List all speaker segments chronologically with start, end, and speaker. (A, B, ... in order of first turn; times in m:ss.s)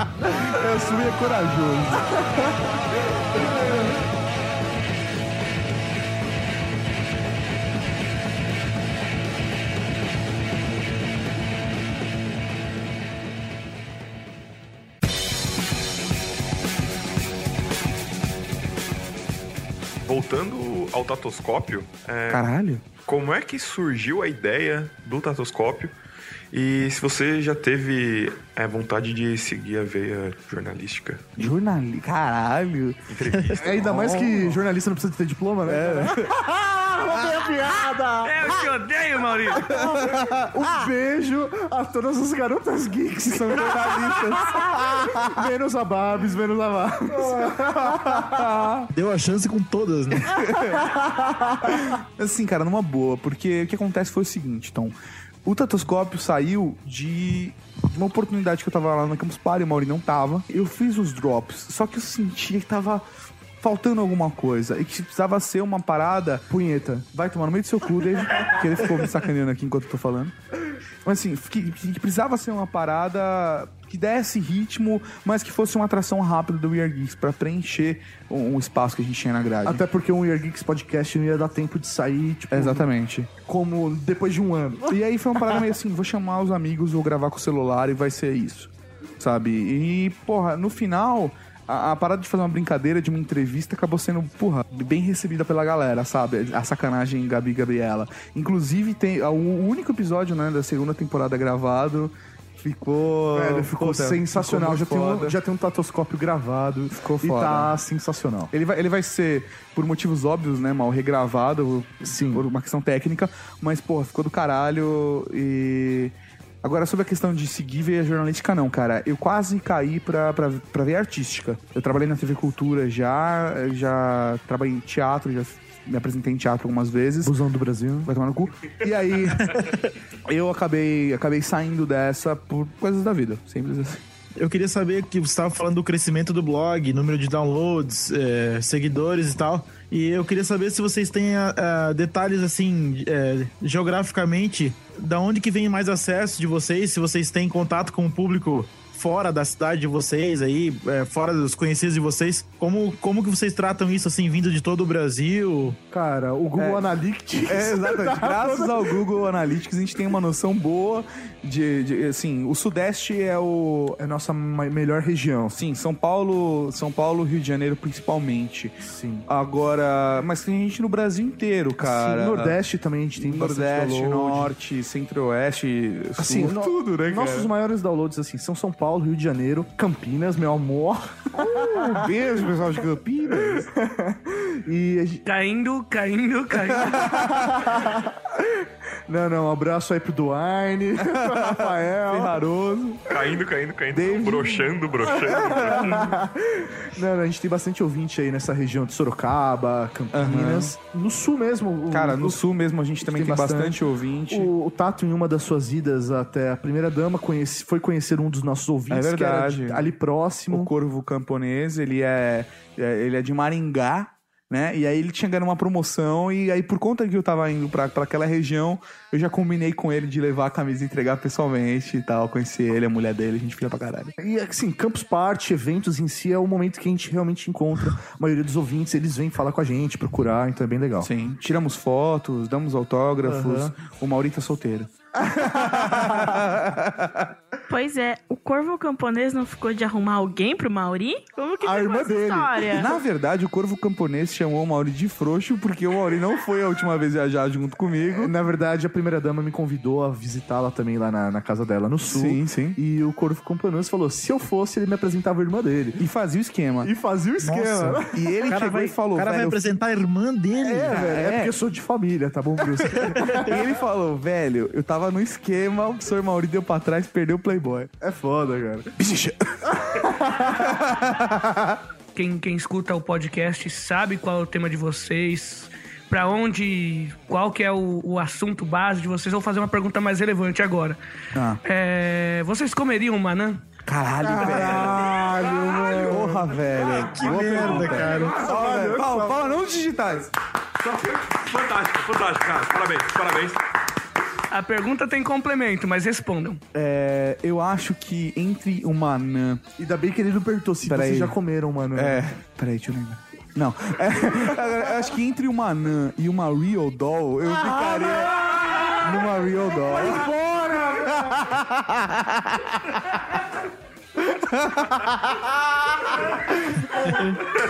0:00.3-0:02.1 A
0:20.0-0:22.5 B
0:22.3-0:22.8 A
0:23.0-0:25.9 B
0:26.5-0:31.2 B
0:31.4-0:33.0 A
0:33.1-0:33.9 B
0:33.6-0:38.5 C
0:33.8-0:34.6 A
0:35.6-0:36.4 A
0:38.2-0:39.7 D
0:39.6-0:48.5 C
0:39.7-0:40.5 A
0:43.2-0:45.3 A
0:47.1-0:47.5 A
0:48.1-0:48.9 A
0:48.9-0:50.3 E
0:50.4-0:51.9 C
0:50.4-0:50.8 A
0:52.0-1:03.0 A
1:03.6-1:06.4 A
1:06.5-1:07.1 C
1:07.1-1:10.3 A
1:11.0-1:19.8 A
1:19.6-1:22.8 C
1:22.5-1:23.3 A
1:23.4-1:25.0 C
1:24.9-1:45.4 A
1:43.3-1:48.5 C
1:46.9-1:47.7 A
1:48.5-2:07.3 A
1:52.1-1:52.4 C
2:07.2-2:08.1 C
2:08.0-2:09.5 A
2:10.3-2:14.0 A
2:14.4-2:35.8 E
2:35.9-2:39.0 C
2:36.6-2:36.8 A
2:37.5-2:44.0 A
2:44.0-2:45.5 C
2:45.5-2:52.6 A
2:48.8-2:49.2 C
2:51.8-2:54.5 C
2:53.2-2:57.5 A
2:56.2-3:02.6 C
3:01.4-3:03.7 A
3:03.3-3:05.2 C
3:05.2-3:07.1 D
3:06.9-3:08.5 C
3:07.0-3:07.5 A
3:09.1-3:12.3 C
3:11.0-3:13.0 A
3:13.1-3:16.2 B
3:13.9-3:14.7 A
3:15.1-3:22.4 C
3:15.3-3:16.1 A
3:20.1-3:20.7 A
3:21.9-3:24.5 A
3:23.0-3:23.8 C
3:24.3-3:30.7 C
3:28.9-3:29.8 A
3:30.5-3:44.1 A
3:44.2-3:51.1 C
3:51.0-3:54.9 A
3:53.2-3:53.7 C
3:55.4-3:56.4 C
3:55.4-3:57.3 A
3:57.7-4:02.9 F
4:01.6-4:02.8 C
4:02.7-4:08.3 A
4:08.1-4:16.0 C
4:12.1-4:12.8 A
4:16.0-4:16.9 A
4:16.8-4:18.1 C
4:17.4-4:21.1 E
4:18.1-4:19.6 A
4:20.6-4:23.6 C
4:20.9-4:21.5 A
4:22.6-4:27.9 A
4:28.0-4:28.9 C
4:29.0-4:29.6 A
4:29.8-4:30.7 C
4:30.7-4:31.3 A
4:32.1-4:41.0 D
4:41.3-4:41.6 A
4:41.6-4:43.6 D
4:43.8-4:50.3 A
4:44.2-4:46.5 C
4:47.1-4:49.1 E
4:47.4-4:48.2 D
4:47.4-4:49.3 C
4:50.8-4:53.6 B
4:54.5-4:56.6 D
4:56.7-4:59.6 A
4:59.8-5:02.2 C
5:00.8-5:01.4 A
5:01.9-5:08.4 A
5:07.6-5:11.5 C
5:09.0-5:10.3 A
5:11.5-5:12.2 A
5:14.3-5:15.0 A